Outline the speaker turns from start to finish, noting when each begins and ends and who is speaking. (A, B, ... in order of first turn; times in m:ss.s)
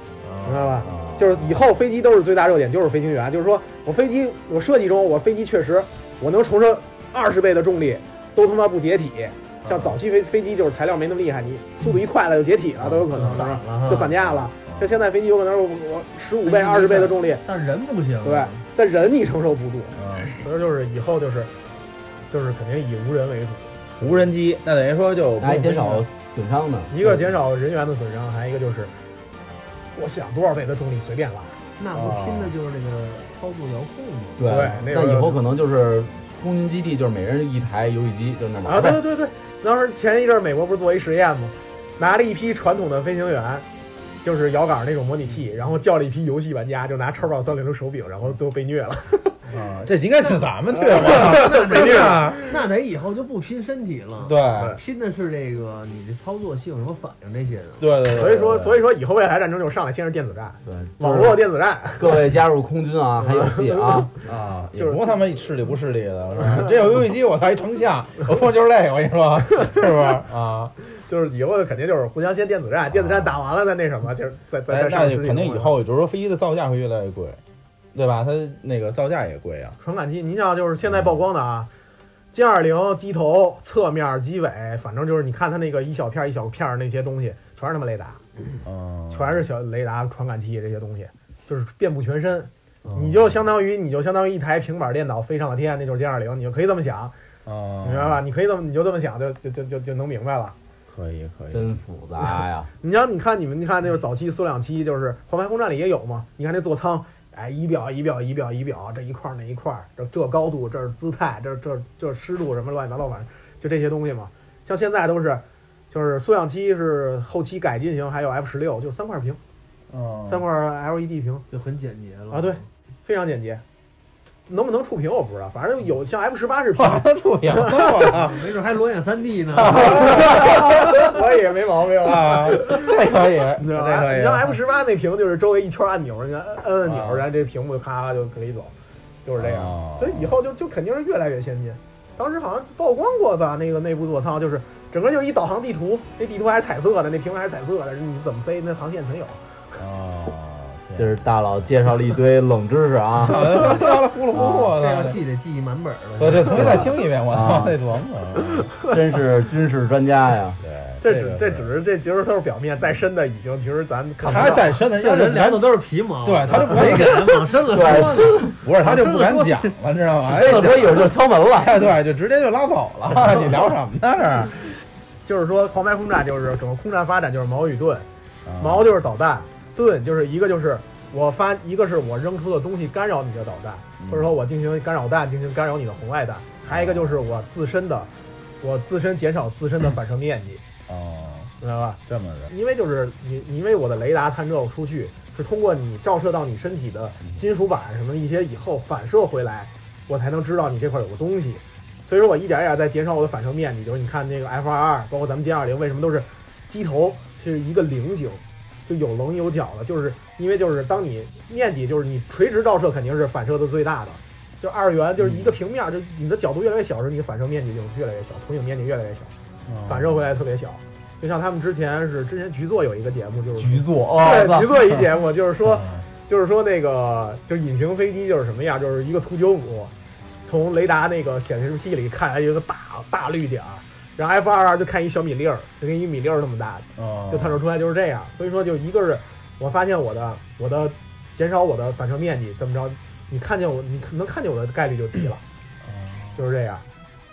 0:00.2-0:01.4 A
0:00.4-0:17.4 B
0:09.6-0:10.0 A
0:12.8-0:13.4 A
0:13.1-0:14.2 C
0:14.2-0:15.0 A
0:16.4-0:18.6 C
0:18.2-0:21.5 B
0:20.0-0:20.4 A
0:22.3-0:24.2 B
0:24.0-0:26.0 A
0:25.4-0:26.9 D
0:26.9-0:28.9 B
0:30.0-0:31.6 B
0:31.8-0:34.7 C
0:31.9-0:32.5 A
0:34.4-0:39.0 D
0:34.5-0:35.4 B
0:38.6-0:43.7 B
0:44.2-0:49.4 B
0:49.5-0:52.5 A
0:50.8-0:52.5 B
0:50.9-0:58.0 C
0:54.2-0:54.8 A
0:57.8-0:58.8 A
0:58.1-1:02.3 B
1:00.6-1:01.4 D
1:02.0-1:04.1 D
1:03.2-1:04.1 B
1:04.2-1:10.7 A
1:04.8-1:05.0 B
1:10.9-1:15.8 B
1:12.9-1:13.4 A
1:14.7-1:17.4 A
1:17.9-1:19.8 A
1:19.8-1:21.7 B
1:20.9-1:21.2 A
1:22.3-1:28.2 B
1:28.6-1:29.4 A
1:29.1-1:37.1 B
1:32.9-1:33.2 A
1:37.4-1:38.2 A
1:37.8-1:40.6 B
1:40.9-1:41.8 A
1:41.5-1:42.7 D
1:42.8-1:59.4 B
1:59.9-2:00.4 A
2:00.3-2:01.4 B
2:01.5-2:02.6 C
2:02.3-2:03.6 B
2:04.5-2:08.1 B
2:06.8-2:08.5 A
2:08.0-2:10.6 C
2:09.6-2:11.1 A
2:09.7-2:18.7 B
2:12.0-2:14.6 A
2:16.8-2:17.3 A
2:19.2-2:29.4 B
2:19.4-2:20.4 A
2:29.8-2:31.7 A
2:31.0-2:34.7 D
2:33.2-2:35.2 A
2:34.6-2:36.8 C
2:36.2-2:38.7 A
2:36.5-2:37.8 D
2:38.8-2:40.6 D
2:40.6-2:41.7 A
2:41.0-2:44.7 B
2:44.2-2:45.7 A
2:44.3-2:49.8 C
2:46.2-2:48.0 A
2:47.7-2:48.6 D
2:48.6-2:54.7 A
2:50.3-2:51.9 D
2:55.3-2:58.0 B
2:58.5-2:58.9 A
2:58.6-3:08.1 B
3:04.0-3:04.3 A
3:06.7-3:07.2 A
3:08.6-3:10.6 B
3:10.9-3:11.5 A
3:11.6-3:39.3 B
3:12.1-3:12.5 A
3:35.2-3:35.5 A
3:39.7-3:40.3 A
3:39.9-3:49.9 B
3:43.6-3:44.8 D
3:43.8-3:44.2 A
3:45.7-3:46.0 A
3:50.4-4:05.4 B
3:57.0-3:57.6 A
4:05.8-4:06.4 A
4:06.4-4:06.8 B